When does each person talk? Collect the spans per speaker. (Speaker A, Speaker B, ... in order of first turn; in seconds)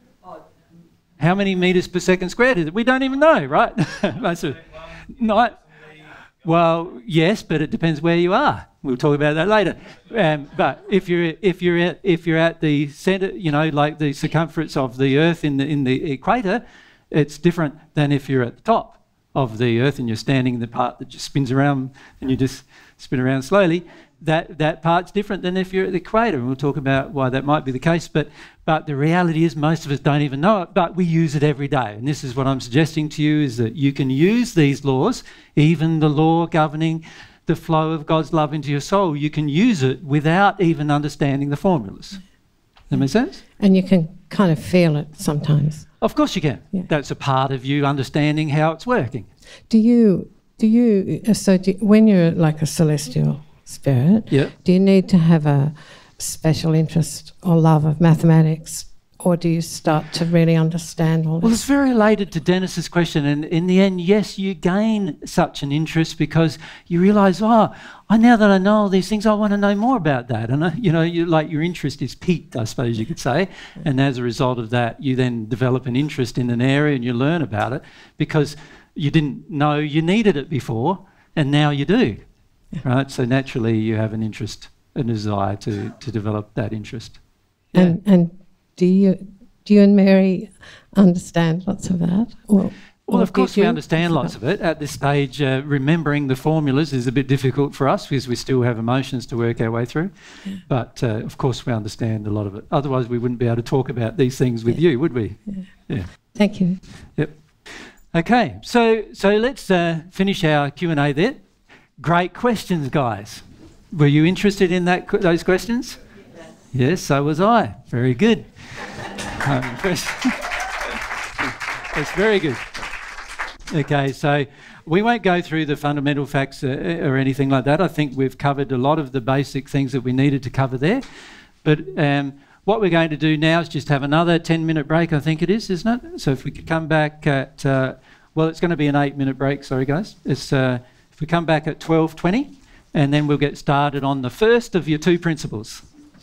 Speaker A: 1.2-5.6, 6.4-42.2, 42.9-43.4, 46.0-49.3, 61.4-82.2, 82.8-87.2, 87.7-88.0, 93.1-106.1, 108.1-111.4, 112.0-116.0, 116.7-120.9, 121.9-122.7, 123.7-131.0, 131.6-145.8
Speaker B: 43.6-46.0, 49.7-61.6, 87.7-94.3, 104.7-105.7, 106.3-106.8